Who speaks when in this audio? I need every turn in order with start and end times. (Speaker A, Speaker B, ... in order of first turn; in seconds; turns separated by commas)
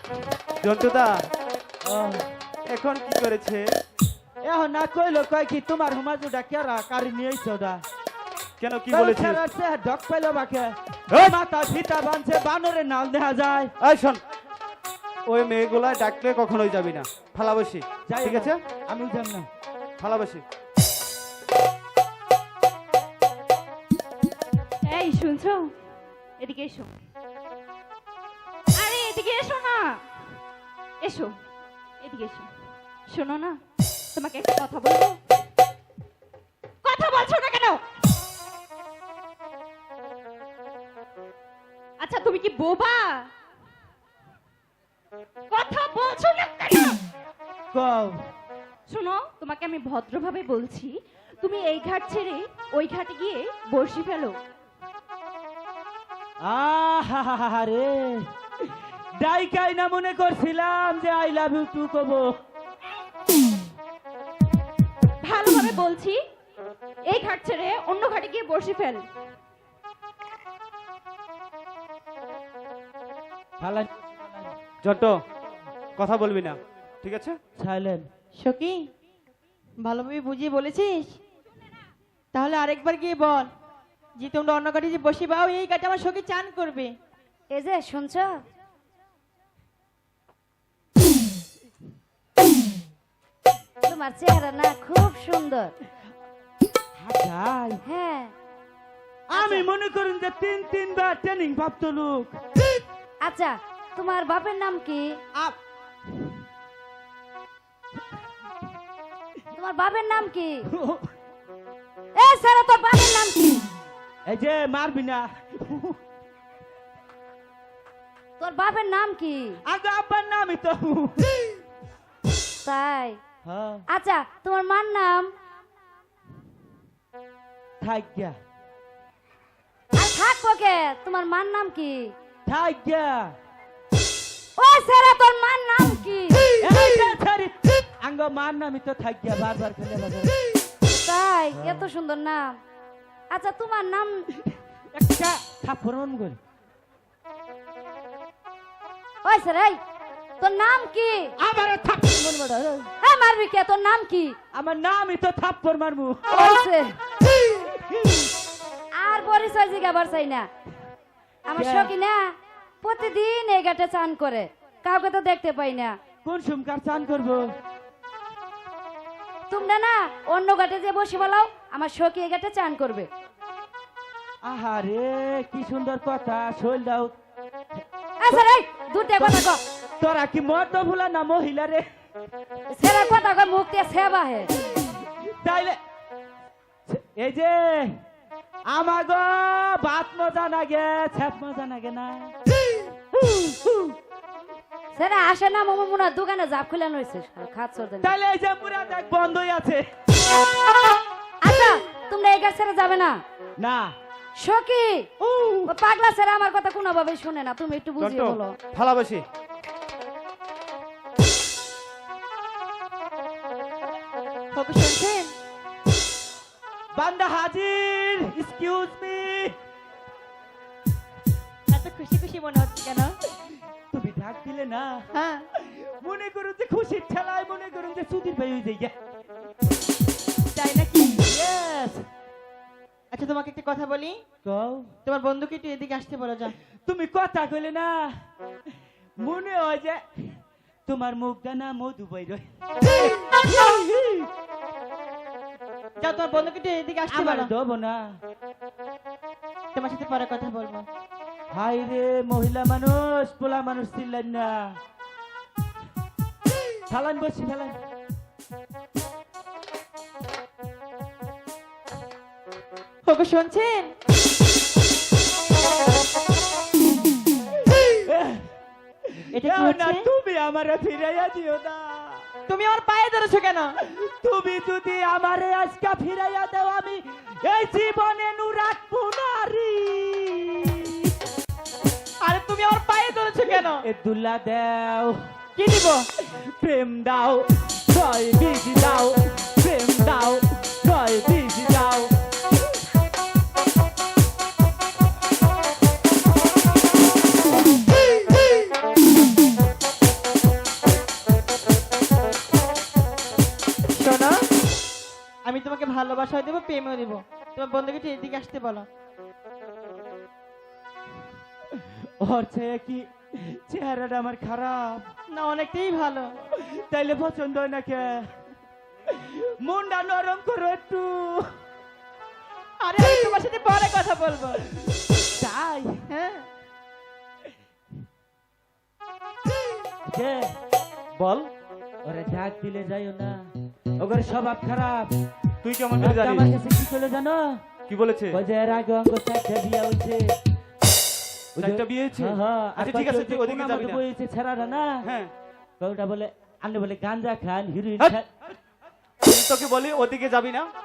Speaker A: 0.6-1.2, Speaker B: 1.8-2.2, Speaker A: 2.7-3.6, Speaker B: 4.4-7.8, Speaker A: 8.6-9.4, Speaker B: 8.9-13.7, Speaker A: 11.1-11.3, Speaker A: 13.8-14.2, Speaker A: 15.3-18.6, Speaker B: 18.1-19.5, Speaker A: 20.0-20.4, Speaker C: 24.9-25.7, Speaker C: 26.4-26.9, Speaker C: 28.8-30.4, Speaker C: 31.0-31.3, Speaker C: 32.0-32.5, Speaker C: 33.1-33.6, Speaker C: 34.1-35.2, Speaker C: 36.8-37.8, Speaker C: 42.0-43.3, Speaker C: 45.5-47.0, Speaker B: 47.7-48.2, Speaker C: 48.9-54.4, Speaker B: 56.4-58.2, Speaker B: 59.2-62.3, Speaker C: 65.2-66.2, Speaker C: 67.0-69.0, Speaker B: 73.6-74.5, Speaker A: 74.8-75.2, Speaker A: 76.0-77.3, Speaker B: 77.6-78.1, Speaker D: 78.4-78.8, Speaker D: 79.8-81.1, Speaker D: 82.3-83.5, Speaker D: 84.2-86.9, Speaker E: 87.5-88.4, Speaker E: 93.8-95.7, Speaker B: 97.0-97.8, Speaker E: 97.8-98.3, Speaker B: 99.3-102.3, Speaker E: 99.3-99.7, Speaker E: 103.2-105.2, Speaker E: 109.5-110.7, Speaker B: 110.7-111.1, Speaker E: 112.1-113.7, Speaker B: 114.2-116.0, Speaker E: 118.4-119.6, Speaker B: 119.7-121.3, Speaker E: 122.6-123.2, Speaker B: 123.4-123.8, Speaker E: 123.9-125.3, Speaker B: 127.8-128.3, Speaker E: 129.9-132.1, Speaker B: 132.4-133.3, Speaker E: 134.6-136.6, Speaker B: 136.6-140.3, Speaker E: 140.9-142.6, Speaker B: 141.5-141.9, Speaker E: 143.3-144.3, Speaker B: 144.9-146.4, Speaker E: 149.2-149.8, Speaker E: 150.4-151.3, Speaker B: 151.4-152.9, Speaker E: 153.0-154.3, Speaker B: 154.5-156.2, Speaker E: 156.3-156.9, Speaker E: 159.0-160.5, Speaker E: 161.5-162.3, Speaker B: 161.5-161.9, Speaker E: 162.8-166.0, Speaker B: 166.2-167.5, Speaker E: 169.5-173.1, Speaker B: 174.4-177.1, Speaker E: 178.2-179.6, Speaker B: 179.2-179.4, Speaker B: 180.0-181.8, Speaker E: 182.7-184.5, Speaker B: 185.3-185.8, Speaker B: 186.9-187.9, Speaker B: 188.7-192.3, Speaker B: 193.2-193.9, Speaker E: 194.9-198.1, Speaker B: 198.0-199.8, Speaker E: 201.4-203.2, Speaker B: 203.6-203.9, Speaker E: 204.4-205.1, Speaker B: 205.2-205.8, Speaker E: 205.7-208.6, Speaker A: 208.0-209.2, Speaker D: 214.5-215.3, Speaker B: 216.9-219.5, Speaker D: 221.7-223.1, Speaker B: 223.9-225.0, Speaker D: 225.1-225.4, Speaker B: 225.6-228.9, Speaker D: 230.5-231.2, Speaker B: 231.3-232.0, Speaker D: 233.1-234.2, Speaker B: 234.4-234.9, Speaker D: 235.1-236.5, Speaker B: 236.8-238.1, Speaker B: 239.2-240.3, Speaker B: 240.9-244.2, Speaker D: 246.0-247.5, Speaker B: 247.1-248.2, Speaker D: 249.7-250.8, Speaker B: 251.5-254.8, Speaker B: 256.9-257.8, Speaker D: 263.1-263.9, Speaker B: 267.8-268.5, Speaker B: 269.1-272.2, Speaker D: 269.3-270.0, Speaker D: 272.5-273.7, Speaker B: 273.9-281.1, Speaker D: 282.2-283.8, Speaker B: 283.5-285.2, Speaker D: 285.6-286.0, Speaker B: 286.3-292.1, Speaker D: 303.9-304.4, Speaker D: 305.4-308.9, Speaker B: 312.2-315.1, Speaker D: 315.3-316.3, Speaker B: 316.5-318.3, Speaker B: 319.2-321.4, Speaker D: 322.8-324.6, Speaker B: 325.4-326.0, Speaker D: 326.1-326.4, Speaker B: 330.1-330.5, Speaker A: 331.2-331.5, Speaker B: 332.0-335.1, Speaker A: 335.6-336.5, Speaker B: 336.0-337.6, Speaker A: 337.9-338.4, Speaker B: 338.3-340.3, Speaker B: 341.6-345.0, Speaker A: 341.6-344.0, Speaker A: 345.0-345.3, Speaker B: 345.8-348.3, Speaker A: 349.2-350.7